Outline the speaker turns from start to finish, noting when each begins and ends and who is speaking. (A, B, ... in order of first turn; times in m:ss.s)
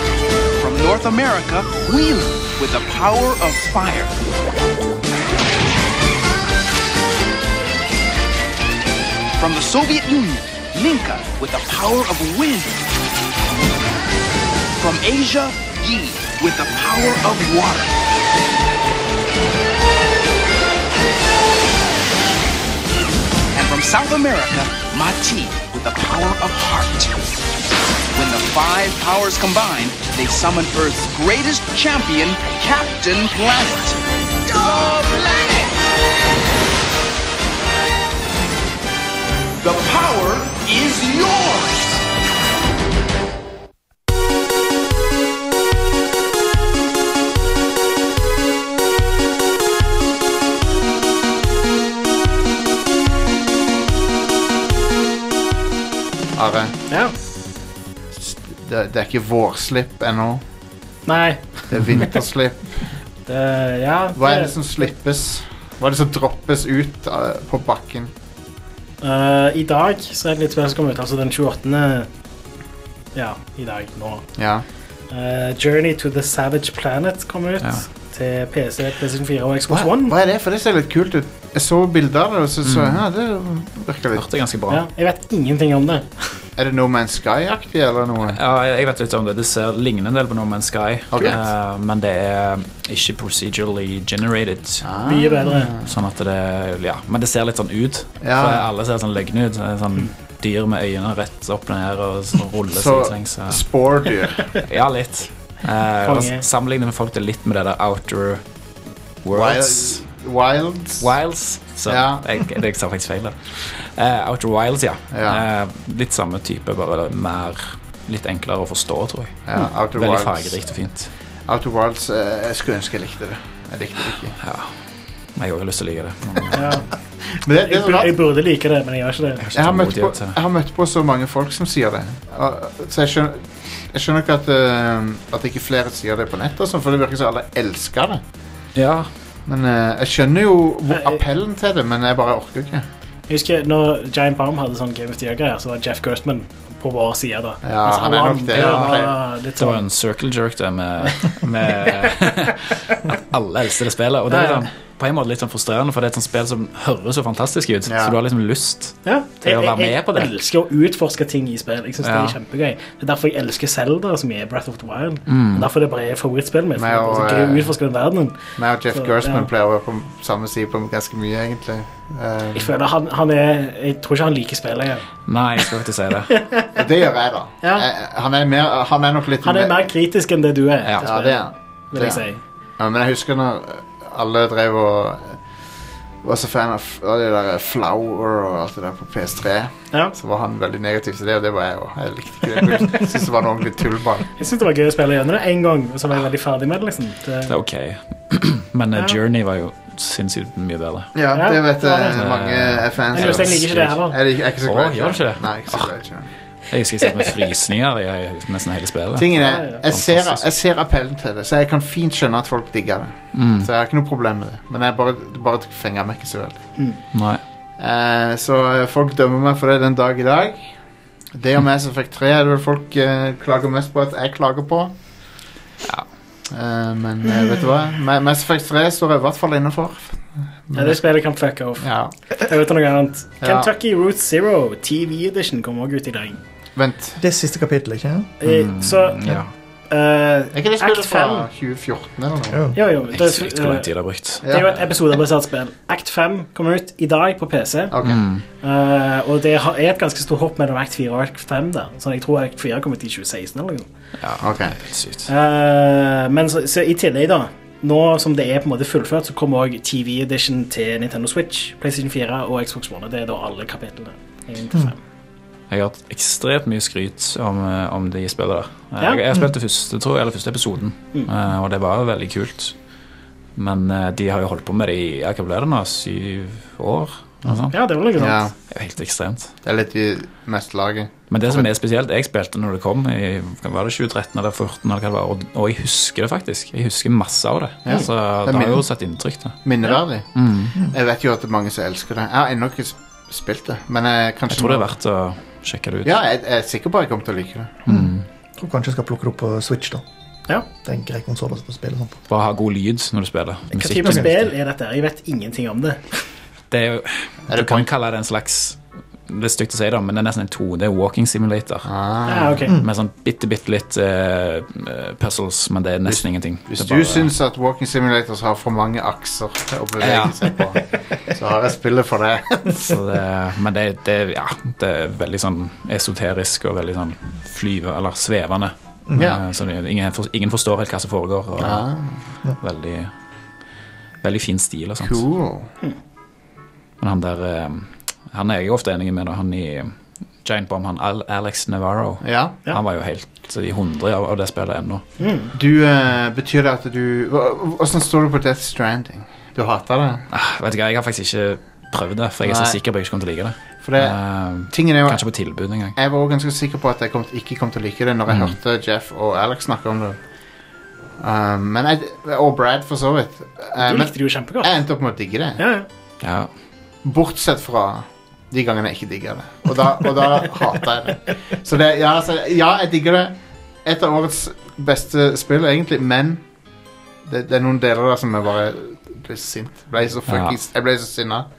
0:00.6-0:04.1 A
0:09.4-0:12.8 A
0:14.8-0:17.9 A
0:23.5-0:27.2 A
0:28.1-0:35.8 A
0:39.6-0:42.0 A
0:56.3-0:56.7 B
0:56.9-0:57.1 C
0:58.1-1:00.4 B
1:01.0-1:02.1 C
1:01.7-1:02.8 B
1:03.2-1:04.6 C
1:04.1-1:08.1 B
1:09.0-1:12.1 C
1:13.1-1:14.3 C
1:14.4-1:14.6 B
1:15.1-1:20.1 C
1:19.7-1:24.2 B
1:22.6-1:23.0 D
1:24.1-1:24.8 D
1:24.7-1:26.4 C
1:26.6-1:28.4 B
1:28.3-1:34.9 D
1:31.1-1:31.4 B
1:34.8-1:35.9 B
1:35.0-1:35.7 C
1:35.8-1:43.6 D
1:38.2-1:38.7 B
1:42.7-1:44.5 B
1:44.6-1:48.4 D
1:46.0-1:46.4 C
1:49.2-1:50.0 D
1:49.3-1:51.1 B
1:51.0-2:01.1 D
1:51.8-1:52.3 B
1:55.1-1:55.4 B
1:59.5-2:00.6 B
2:01.5-2:04.4 B
2:04.4-2:04.7 D
2:05.3-2:06.8 D
2:06.5-2:06.9 C
2:07.2-2:08.1 B
2:07.6-2:09.4 C
2:09.4-2:10.4 D
2:09.5-2:18.2 B
2:18.8-2:19.1 D
2:19.5-2:22.9 B
2:20.9-2:21.2 C
2:23.3-2:29.8 C
2:27.6-2:29.2 B
2:28.5-2:28.9 D
2:29.6-2:40.3 D
2:31.0-2:32.1 C
2:34.3-2:34.7 C
2:37.8-2:38.1 B
2:39.0-2:48.4 C
2:42.0-2:42.4 D
2:45.3-2:45.7 D
2:46.7-2:47.7 B
2:48.6-2:52.7 B
2:49.0-2:49.5 C
2:52.5-2:55.0 C
2:55.3-2:56.4 D
2:56.4-2:56.8 C
2:56.7-2:59.8 B
2:57.6-2:57.9 C
2:59.4-3:02.4 C
3:01.0-3:02.2 B
3:02.8-3:05.4 B
3:06.2-3:14.3 B
3:14.4-3:17.5 C
3:17.5-3:21.1 D
3:21.1-3:26.3 B
3:21.3-3:22.2 C
3:22.1-3:24.0 D
3:23.1-3:24.2 C
3:24.6-3:25.9 D
3:26.7-3:30.4 D
3:29.1-3:36.6 B
3:29.4-3:29.8 C
3:33.3-3:33.7 D
3:37.1-3:37.4 D
3:37.8-3:40.7 B
3:41.3-3:44.9 B
3:46.5-3:51.0 B
3:50.7-3:56.4 C
3:51.8-3:52.1 B
3:53.4-3:53.7 B
3:56.8-3:57.2 B
3:57.2-3:58.3 E
3:58.4-3:59.4 C
3:58.4-3:59.5 D
3:59.9-4:01.5 C
4:00.5-4:02.6 B
4:02.5-4:02.8 E
4:02.7-4:03.9 C
4:03.1-4:04.8 D
4:04.4-4:04.7 B
4:04.4-4:08.0 C
4:07.9-4:08.2 B
4:08.0-4:08.4 D
4:08.6-4:13.9 C
4:14.2-4:15.3 D
4:14.4-4:14.8 B
4:15.3-4:25.0 C
4:25.7-4:32.7 D
4:33.6-4:37.8 D
4:37.7-4:38.5 C
4:38.1-4:38.5 B
4:38.7-4:39.5 D
4:39.6-4:41.7 B
4:41.3-4:49.6 D
4:47.8-4:48.8 B
4:49.6-4:54.9 B
4:50.3-4:50.7 D
4:54.5-4:56.2 D
4:56.0-4:57.8 B
4:57.8-4:58.2 D
4:57.9-5:00.0 E
5:00.7-5:02.2 E
5:02.3-5:04.5 D
5:03.7-5:06.2 C
5:06.7-5:11.9 D
5:07.5-5:07.9 B
5:11.8-5:12.6 B
5:12.2-5:12.7 C
5:12.7-5:17.3 D
5:16.0-5:23.0 B
5:20.0-5:20.5 D
5:22.8-5:31.9 D
5:29.1-5:29.4 B
5:31.6-5:32.2 B
5:32.6-5:33.1 D
5:34.2-5:35.2 D
5:35.0-5:35.7 B
5:37.0-5:45.0 D
5:42.2-5:42.6 B
5:45.2-5:45.5 C
5:45.5-5:50.3 B
5:50.3-5:56.0 D
5:52.4-5:52.8 B
5:53.8-5:54.2 B
5:54.7-5:55.3 B
5:55.9-6:00.2 B
6:01.2-6:05.6 B
6:03.8-6:04.7 C
6:05.6-6:05.9 C
6:06.2-6:06.5 D
6:07.0-6:16.4 B
6:17.2-6:21.5 B
6:20.3-6:20.6 D